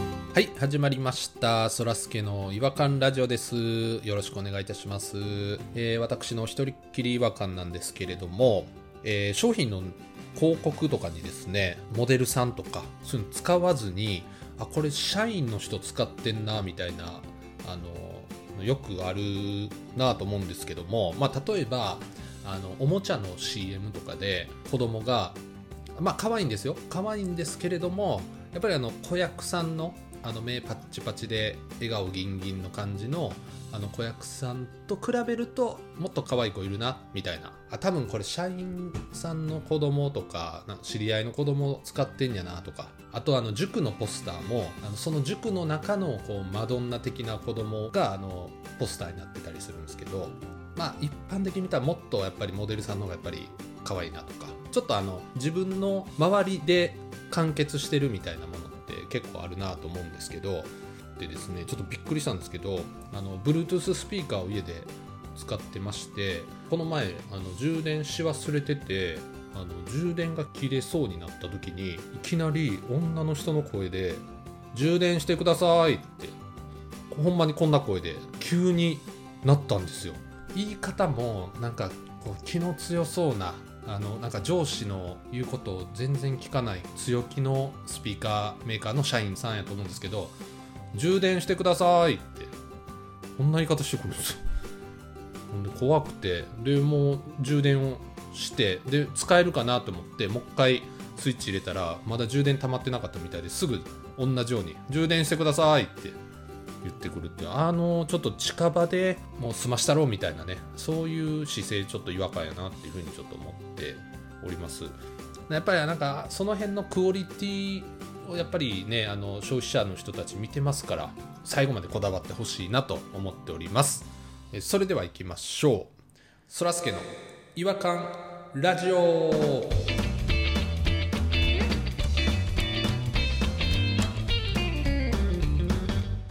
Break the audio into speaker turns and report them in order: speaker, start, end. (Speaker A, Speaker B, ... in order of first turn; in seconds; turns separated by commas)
Speaker A: 0.3-25.4, Speaker A: 26.0-76.3, Speaker A: 77.1-90.3, Speaker A: 90.9-92.5, Speaker A: 93.4-94.4, Speaker A: 95.5-106.2, Speaker A: 106.8-114.9, Speaker A: 115.5-125.9, Speaker A: 126.5-129.8